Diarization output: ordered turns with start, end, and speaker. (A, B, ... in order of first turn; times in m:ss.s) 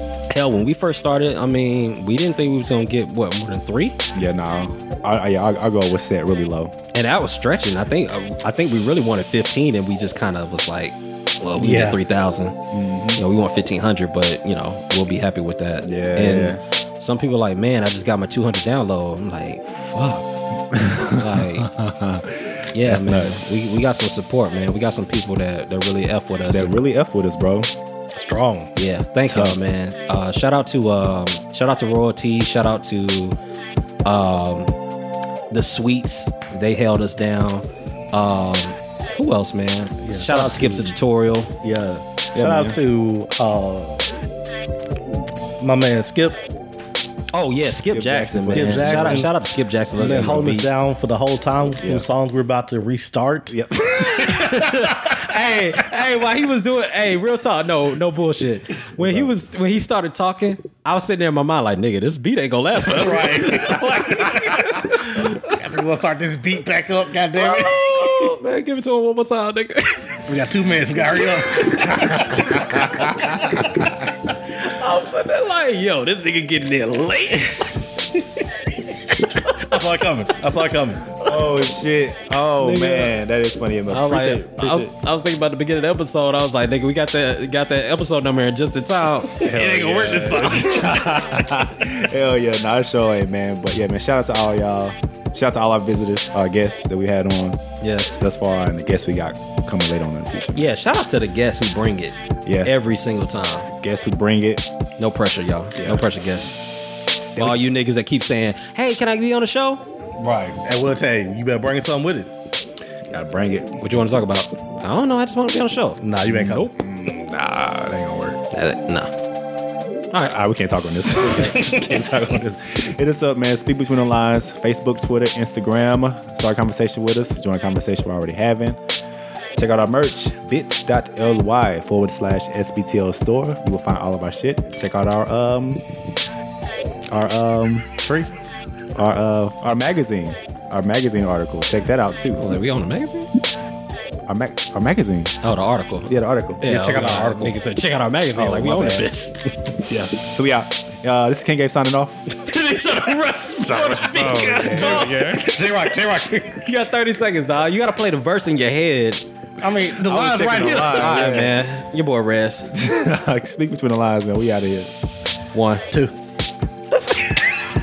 0:00.3-0:04.0 A
0:04.1-0:06.7 B
0:06.9-0:12.6 A
0:11.6-0:12.0 C
0:12.7-0:13.2 B
0:13.2-0:20.3 A
0:15.8-0:16.6 B
0:20.7-0:23.5 B
0:21.0-0:21.7 A
0:22.7-0:26.8 A
0:26.5-0:27.7 B
0:28.1-0:28.7 C
0:28.8-0:33.4 A
0:29.2-0:29.6 B
0:34.0-0:34.7 A
0:35.5-0:41.5 A
0:40.0-0:40.9 C
0:41.6-0:44.1 C
0:42.3-0:42.8 B
0:45.6-0:46.4 C
0:47.3-0:50.7 A
0:47.9-0:49.3 B
0:48.5-0:49.3 C
0:49.9-0:53.6 C
0:50.0-0:50.5 B
0:51.8-0:52.1 B
0:53.5-0:54.6 B
0:54.0-1:05.6 A
0:59.0-0:59.3 B
1:02.8-1:08.3 C
1:07.3-1:10.3 A
1:10.2-1:13.6 C
1:11.1-1:13.0 A
1:12.6-1:13.9 B
1:14.4-1:17.8 A
1:19.3-1:19.8 A
1:19.5-1:21.1 C
1:21.2-1:24.9 B
1:22.6-1:23.1 A
1:23.9-1:31.1 A
1:29.4-1:37.6 B
1:37.8-1:38.2 A
1:38.2-1:40.7 B
1:40.5-1:43.7 A
1:42.4-1:42.7 B
1:43.8-1:44.6 B
1:45.0-1:46.6 A
1:45.8-1:46.1 B
1:47.4-1:49.8 A
1:50.2-1:52.3 C
1:53.1-1:53.8 B
1:53.8-1:56.7 A
1:56.0-1:56.7 C
1:56.2-1:58.4 B
1:58.5-1:59.1 A
2:00.2-2:08.8 B
2:01.4-2:02.3 C
2:09.6-2:15.8 B
2:17.1-2:18.0 B
2:18.0-2:18.3 C
2:18.9-2:22.4 B
2:22.4-2:23.3 A
2:24.3-2:25.4 B
2:25.4-2:29.5 A
2:26.1-2:26.6 B
2:26.6-2:27.6 C
2:28.3-2:29.1 B
2:29.8-2:32.2 B
2:32.4-2:35.2 A
2:33.7-2:35.5 B
2:34.7-2:36.7 C
2:36.6-2:39.2 A
2:39.6-2:41.4 C
2:39.9-2:41.6 B
2:40.8-2:42.7 A
2:42.7-2:44.9 B
2:45.5-2:45.8 A